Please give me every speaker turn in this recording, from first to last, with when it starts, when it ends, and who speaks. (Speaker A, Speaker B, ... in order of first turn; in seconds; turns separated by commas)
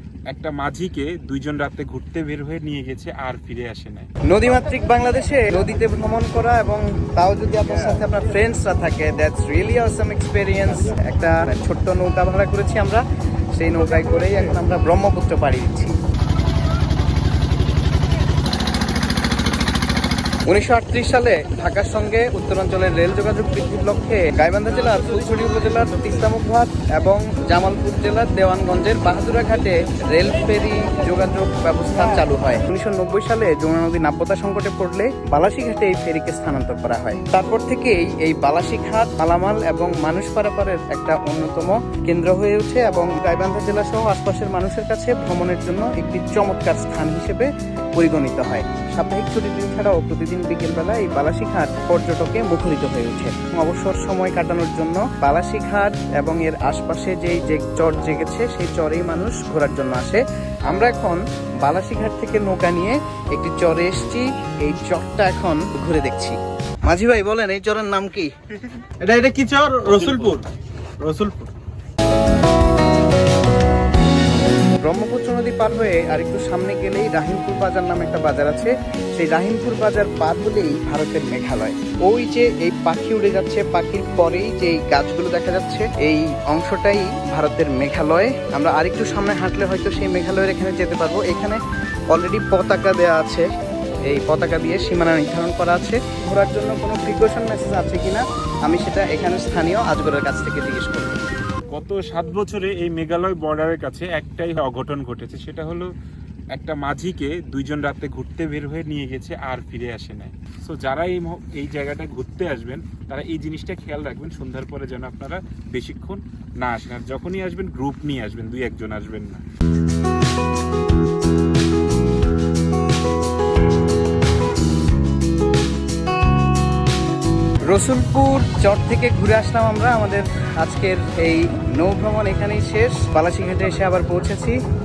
Speaker A: 0.3-4.1, Speaker B: 4.3-13.0, Speaker B: 13.5-16.0, Speaker B: 20.5-68.3, Speaker C: 69.0-70.5, Speaker C: 71.0-71.5, Speaker B: 74.8-93.5, Speaker B: 94.0-101.2, Speaker A: 101.7-105.9, Speaker A: 106.5-119.4, Speaker B: 127.7-134.6